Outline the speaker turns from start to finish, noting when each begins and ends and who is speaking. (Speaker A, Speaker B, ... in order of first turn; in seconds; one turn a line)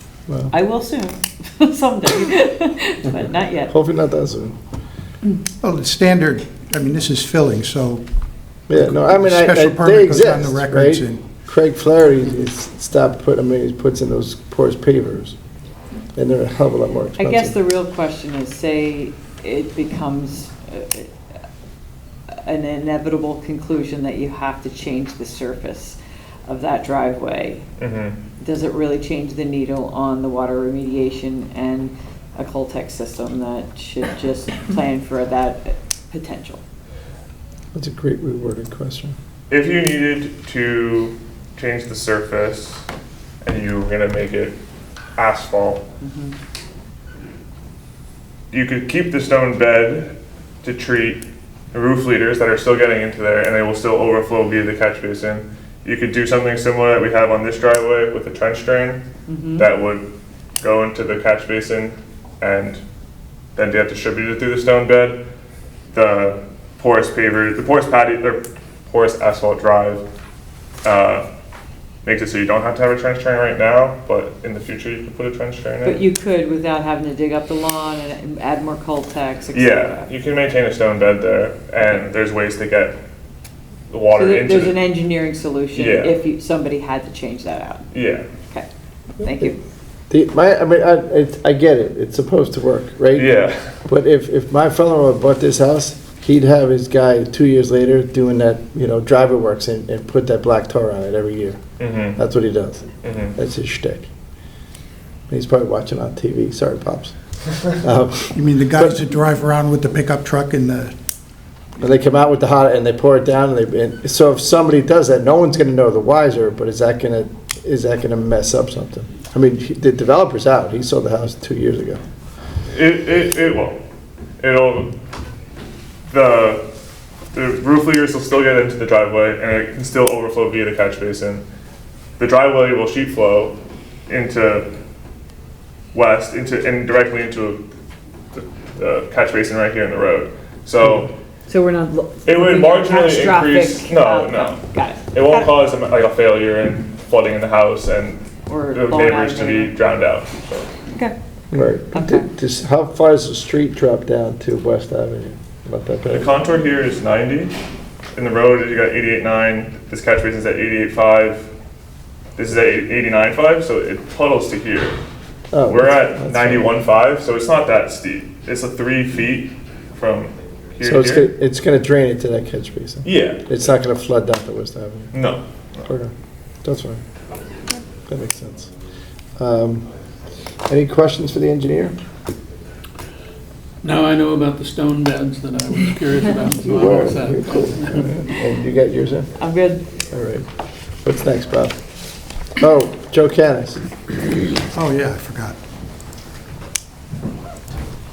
Speaker A: 0.3-0.5
Speaker B: 0.5-3.7
Speaker A: 3.7-4.5
Speaker C: 5.6-8.0
Speaker A: 8.7-15.4
Speaker C: 8.7-11.2
Speaker A: 16.1-17.6
Speaker B: 17.2-21.1
Speaker B: 22.4-27.6
Speaker D: 27.8-28.2
Speaker B: 28.4-36.6
Speaker A: 37.7-39.1
Speaker D: 39.5-42.9
Speaker D: 43.4-44.6
Speaker D: 45.2-45.9
Speaker B: 46.0-46.4
Speaker D: 48.5-59.0
Speaker B: 59.3-59.7
Speaker D: 59.6-60.1
Speaker D: 60.6-62.8
Speaker D: 63.6-65.2
Speaker D: 65.9-70.0
Speaker D: 70.8-71.3
Speaker D: 72.0-76.0
Speaker B: 75.8-80.1
Speaker D: 79.5-83.0
Speaker D: 83.9-84.8
Speaker B: 84.1-87.9
Speaker D: 85.8-86.2
Speaker D: 87.9-88.3
Speaker B: 89.2-89.6
Speaker A: 90.1-93.3
Speaker D: 93.2-93.8
Speaker A: 93.9-101.6
Speaker D: 101.8-102.2
Speaker A: 102.2-104.1
Speaker D: 103.0-103.3
Speaker A: 105.3-107.1
Speaker A: 107.8-109.0
Speaker C: 108.3-110.9
Speaker A: 111.8-122.0
Speaker D: 122.7-123.8
Speaker D: 124.4-125.0
Speaker D: 126.1-126.7
Speaker D: 127.3-131.4
Speaker D: 132.2-134.7
Speaker D: 135.9-137.7
Speaker D: 138.3-141.1
Speaker B: 141.5-145.5
Speaker D: 142.2-144.6
Speaker D: 145.1-150.7
Speaker B: 148.5-149.8
Speaker A: 151.5-156.3
Speaker B: 151.9-152.3
Speaker D: 156.1-157.6
Speaker D: 158.2-161.5
Speaker D: 162.4-165.0
Speaker A: 165.5-166.8
Speaker D: 165.7-171.3
Speaker A: 170.8-175.1
Speaker D: 173.0-173.5
Speaker D: 175.1-175.4
Speaker A: 175.8-176.1
Speaker A: 176.6-177.0
Speaker A: 178.1-178.7
Speaker A: 179.4-179.9
Speaker A: 180.7-182.0
Speaker E: 183.8-188.1
Speaker A: 186.6-189.3
Speaker B: 189.4-189.8
Speaker A: 190.1-190.5
Speaker A: 191.0-191.8
Speaker A: 192.6-193.8
Speaker C: 194.7-195.6